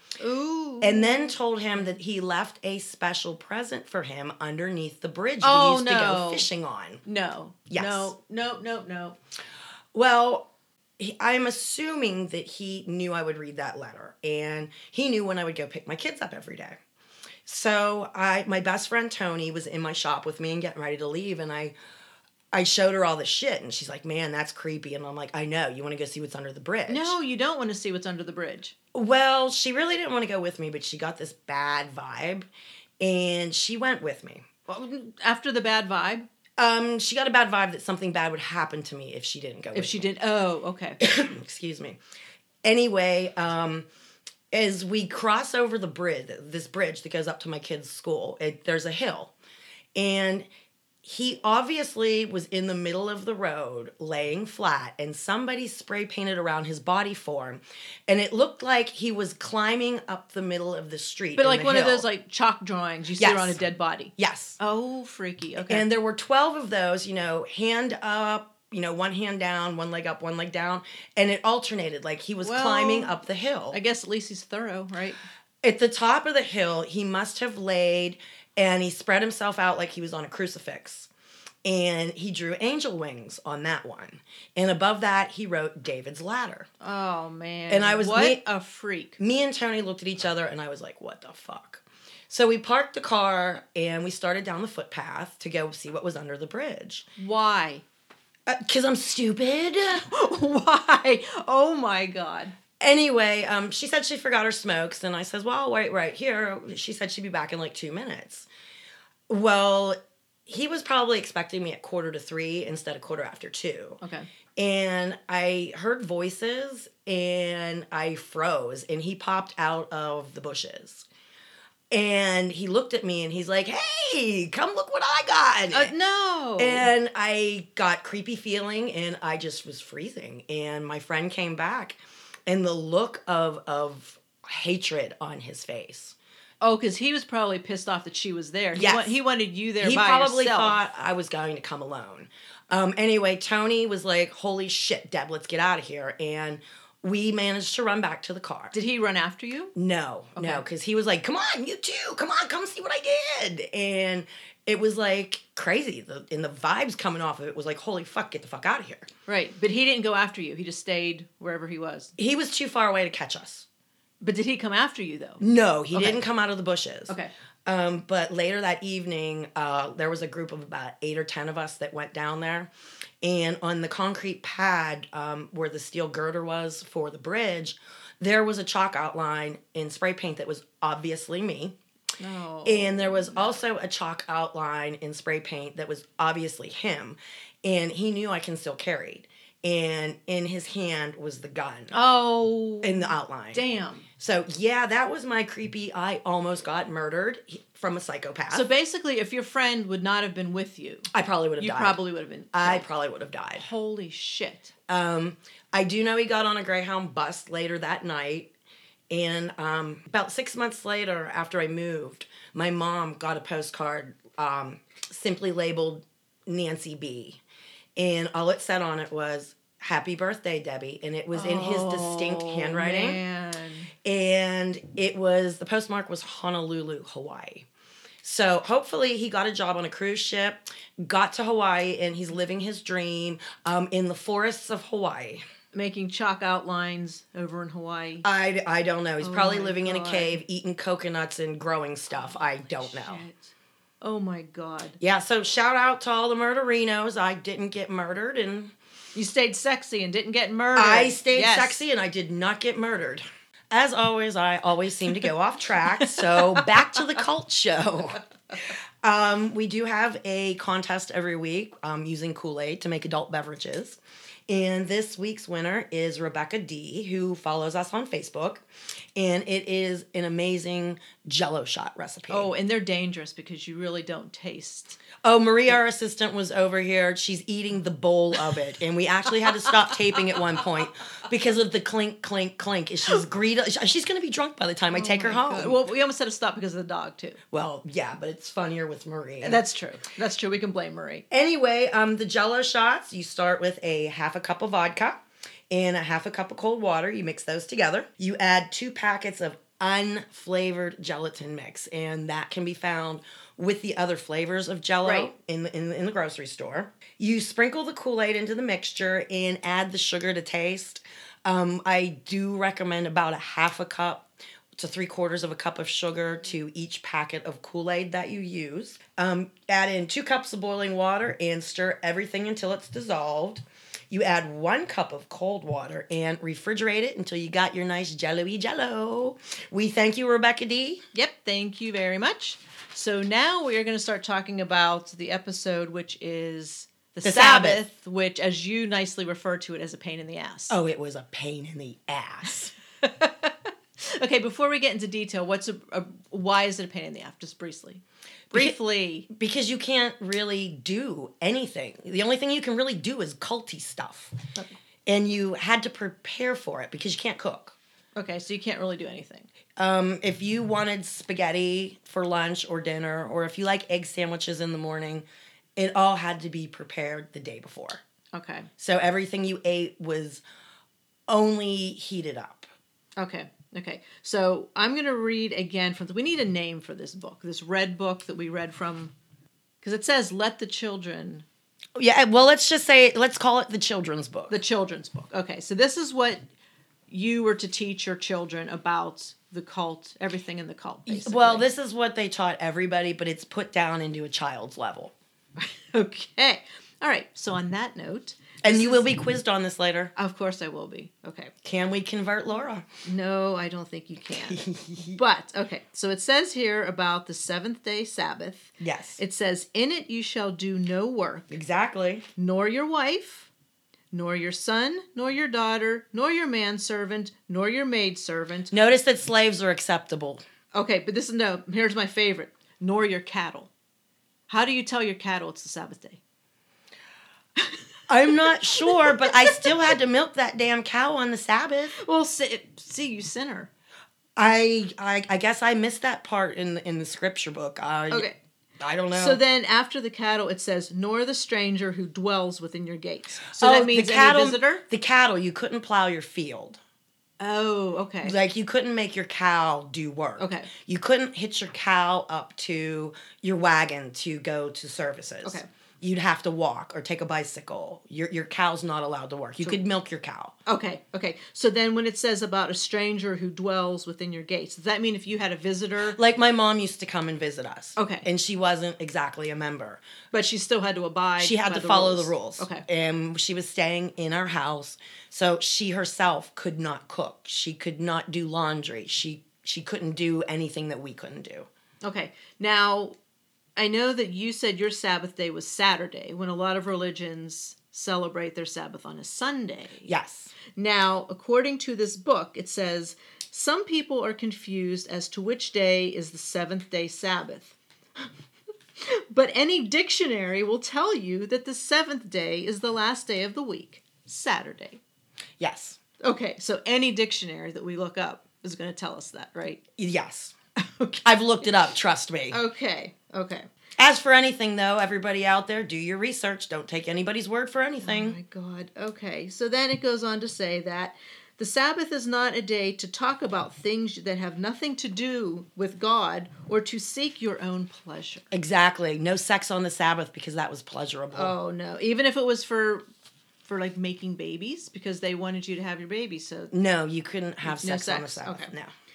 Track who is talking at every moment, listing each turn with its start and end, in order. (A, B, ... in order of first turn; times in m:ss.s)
0:00.2-0:02.0 A
0:00.8-0:07.0 B
0:05.4-0:06.5 A
0:07.1-0:09.2 A
0:07.7-0:08.1 B
0:09.9-0:10.5 B
0:11.0-0:16.8 B
0:17.5-0:21.8 B
0:22.5-0:27.2 B
0:26.9-0:28.7 A
0:28.9-0:32.5 B
0:33.0-0:34.5 B
0:34.7-0:36.3 A
0:36.6-0:40.1 B
0:39.7-0:41.0 A
0:41.0-0:42.0 B
0:42.6-0:43.9 B
0:44.5-0:49.3 B
0:50.0-0:50.5 B
0:51.0-1:02.1 B
1:01.4-1:05.9 A
1:03.2-1:03.6 B
1:04.2-1:04.6 B
1:05.6-1:13.8 B
1:12.4-1:13.2 A
1:13.7-1:15.2 A
1:15.6-1:21.1 B
1:21.6-1:26.7 B
1:26.8-1:29.2 A
1:27.7-1:28.4 B
1:29.2-1:37.1 B
1:37.2-1:37.8 A
1:38.5-1:40.1 B
1:40.0-1:42.6 A
1:42.8-1:48.5 B
1:49.3-1:54.0 B
1:54.0-1:54.3 A
1:54.6-2:01.1 B
2:01.9-2:05.9 B
2:05.7-2:06.9 A
2:06.6-2:16.2 B
2:16.6-2:20.8 A
2:18.7-2:19.2 B
2:19.8-2:28.8 B
2:28.7-2:29.7 A
2:29.8-2:39.1 B
2:30.4-2:30.6 A
2:39.3-2:42.1 A
2:42.2-2:43.7 B
2:44.2-2:45.4 A
2:45.4-2:52.7 B
2:45.9-2:46.2 A
2:53.2-3:01.8 B
3:02.2-3:03.6 A
3:02.6-3:12.0 B
3:11.9-3:14.1 A
3:12.8-3:13.6 B
3:14.2-3:18.7 B
3:18.5-3:22.8 A
3:21.1-3:22.0 B
3:22.5-3:23.7 B
3:23.6-3:24.7 A
3:24.9-3:28.5 B
3:29.1-3:37.4 B
3:38.0-3:43.2 B
3:41.3-3:43.9 A
3:44.0-3:47.7 B
3:48.2-3:55.4 B
3:55.7-3:58.2 A
3:58.2-4:03.2 B
3:59.2-4:00.4 A
4:02.1-4:05.0 A
4:05.0-4:08.7 B
4:09.2-4:11.8 A
4:10.8-4:18.2 B
4:16.1-4:16.7 A
4:19.0-4:28.6 B
4:29.2-4:32.5 B
4:32.3-4:35.0 A
4:35.2-4:45.8 B
4:44.9-4:47.4 A
4:47.5-4:49.6 B
4:49.4-4:51.2 A
4:51.3-4:55.2 B
4:55.7-5:31.0 B
5:05.0-5:05.3 A
5:31.1-5:40.8 A
5:37.2-5:37.8 B
5:40.7-5:42.7 B
5:43.0-5:49.3 A
5:49.3-5:54.4 B
5:55.1-5:57.8 B
5:58.2-5:59.5 A
5:59.8-6:08.0 B
6:08.3-6:08.7 A
6:08.8-6:10.4 B
6:11.3-6:12.7 B
6:13.2-6:19.1 A
6:19.8-6:21.4 A
6:22.0-6:24.6 B
6:24.5-6:26.4 A
6:27.1-6:31.7 A
6:31.1-6:35.1 B
6:35.6-6:39.0 A
6:38.6-6:40.1 B
6:40.2-6:41.5 A
6:41.6-6:42.9 B
6:43.0-6:51.5 A
6:44.4-6:45.2 B
6:48.8-6:49.2 B
6:51.5-6:52.3 B
6:52.4-6:53.5 A
6:54.1-6:58.7 A
6:58.7-7:00.4 B
7:00.7-7:03.7 A
7:04.5-7:06.2 A
7:07.6-7:09.9 A
7:08.1-7:12.0 B
7:12.0-7:13.7 A
7:14.4-7:18.3 B
7:18.1-7:18.4 A
7:18.8-7:19.4 B
7:19.1-7:24.8 A
7:23.5-7:26.8 B
7:27.4-7:28.4 A
7:28.2-7:40.6 B
7:30.4-7:30.7 A
7:40.7-7:46.2 A
7:46.2-7:50.0 B
7:48.0-7:48.3 A
7:50.3-7:52.8 A
7:51.4-8:01.7 B
8:02.0-8:03.2 A
8:03.8-8:10.1 A
8:10.1-8:10.5 B
8:10.8-8:17.8 A
8:19.0-8:25.0 A
8:25.6-8:26.0 B
8:26.2-8:29.8 A
8:30.0-8:30.6 B
8:30.8-8:31.7 A
8:31.2-8:32.6 B
8:32.5-8:33.7 A
8:34.0-8:38.4 B
8:38.0-8:48.5 A
8:48.5-8:51.5 B
8:51.3-8:53.0 A
8:53.6-8:56.7 A
8:56.7-8:58.9 B
8:57.6-8:58.7 A